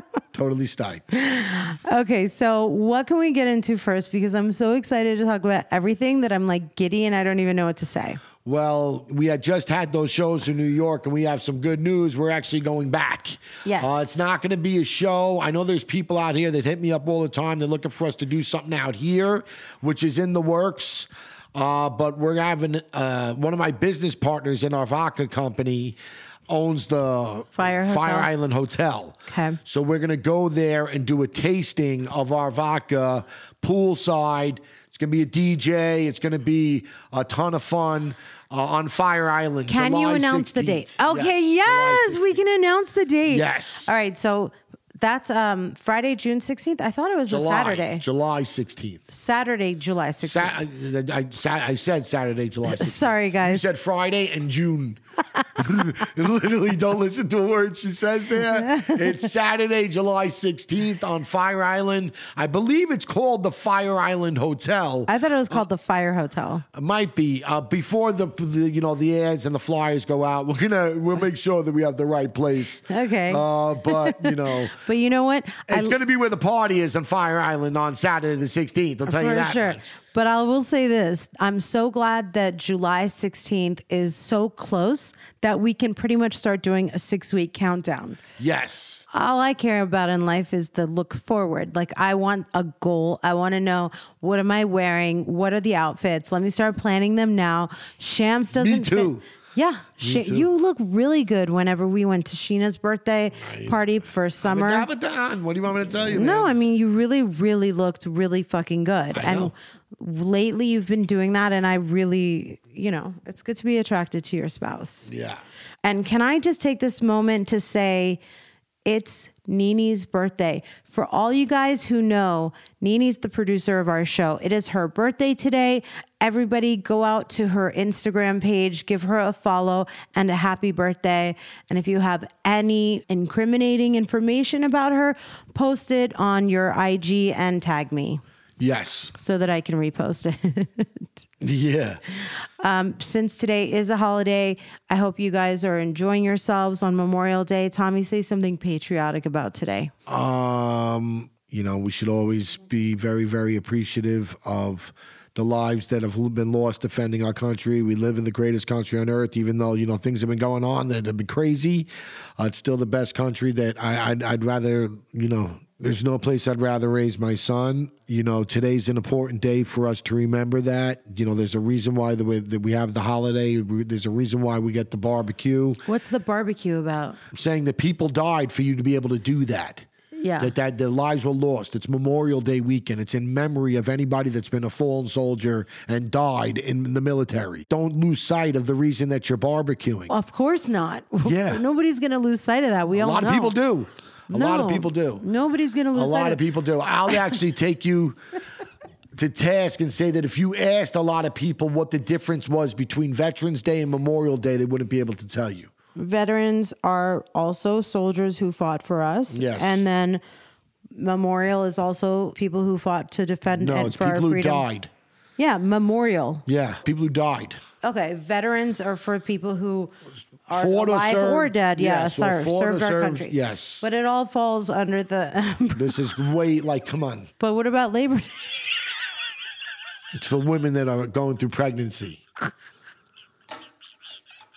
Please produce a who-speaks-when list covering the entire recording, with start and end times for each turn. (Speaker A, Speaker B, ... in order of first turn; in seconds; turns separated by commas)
Speaker A: 0.3-1.1, Speaker B: 1.1-8.2, Speaker A: 8.4-26.0, Speaker B: 13.6-14.3, Speaker A: 26.5-42.4, Speaker B: 27.6-28.3, Speaker B: 29.3-29.6, Speaker B: 39.7-48.0, Speaker A: 43.3-43.9, Speaker A: 47.3-49.0, Speaker B: 49.1-50.5, Speaker A: 50.2-55.0, Speaker B: 52.6-53.7, Speaker A: 55.6-65.6, Speaker B: 58.5-59.2, Speaker B: 65.1-66.6, Speaker A: 66.7-74.8, Speaker B: 72.9-76.0, Speaker A: 75.7-79.8, Speaker B: 79.0-88.2, Speaker A: 88.4-89.0, Speaker B: 89.1-104.9, Speaker A: 98.5-99.2, Speaker A: 100.0-100.5, Speaker A: 103.4-103.8, Speaker A: 104.4-106.5, Speaker B: 106.1-115.1, Speaker A: 109.1-109.5, Speaker A: 115.1-115.4, Speaker B: 115.8-118.2, Speaker B: 118.8-138.2, Speaker A: 138.6-139.1, Speaker B: 139.1-141.1, Speaker A: 141.4-142.0, Speaker B: 142.2-149.9, Speaker A: 150.1-175.8, Speaker B: 175.8-177.2, Speaker A: 177.3-179.8, Speaker B: 180.2-180.5, Speaker A: 180.4-190.1, Speaker B: 190.1-193.6, Speaker A: 191.2-191.6, Speaker A: 192.9-195.2, Speaker B: 194.3-196.4, Speaker A: 195.9-198.2, Speaker B: 197.1-197.3, Speaker A: 199.1-205.7, Speaker B: 205.9-210.2, Speaker A: 209.3-209.8, Speaker B: 210.9-214.7, Speaker A: 213.6-214.9, Speaker B: 215.4-216.4, Speaker A: 216.5-217.6, Speaker B: 217.8-219.9, Speaker B: 220.5-225.9, Speaker A: 220.5-223.8, Speaker A: 225.8-227.3, Speaker B: 227.4-228.6, Speaker A: 230.1-232.2